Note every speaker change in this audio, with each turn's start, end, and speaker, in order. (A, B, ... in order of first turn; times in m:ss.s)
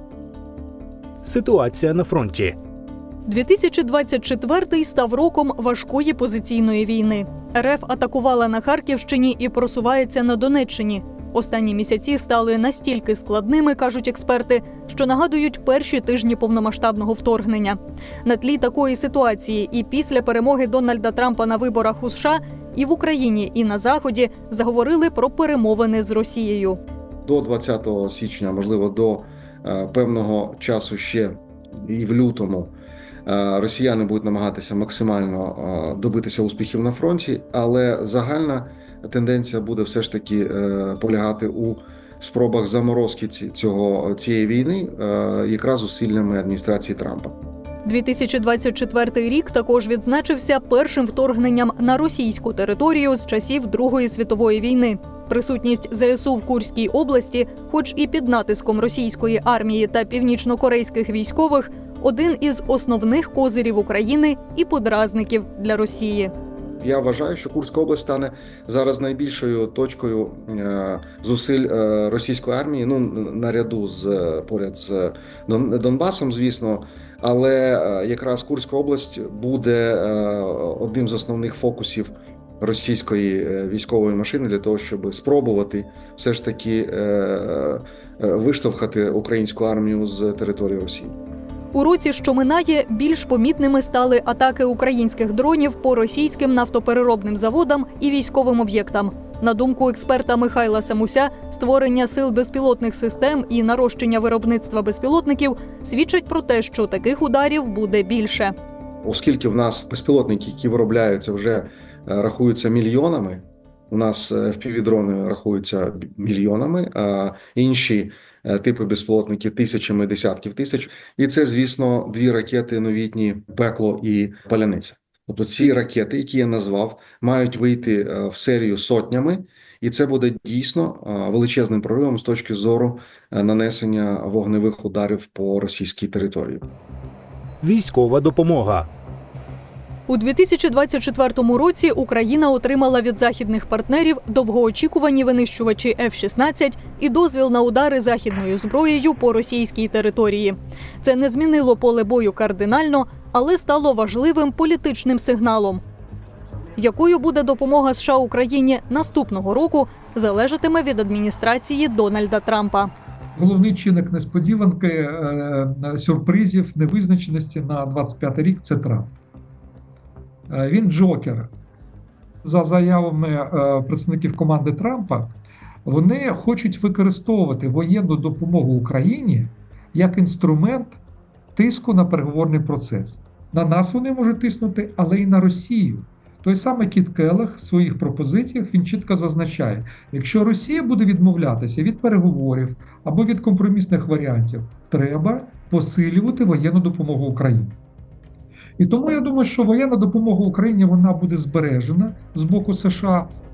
0:01.2-0:02.6 A
0:03.3-0:26.8 B
0:27.2-0:32.7 C
0:33.3-0:47.3 C
0:47.8-1:06.3 B
1:06.8-1:31.2 C
1:31.7-1:48.5 B
1:49.0-2:16.6 C
2:17.6-2:18.9 A
2:20.1-2:35.8 B
2:36.8-2:42.9 B
2:43.4-2:49.2 D
2:50.5-2:51.5 D
2:52.4-2:55.3 D
2:55.9-3:01.0 D
3:01.6-3:17.8 D
3:18.8-3:23.3 D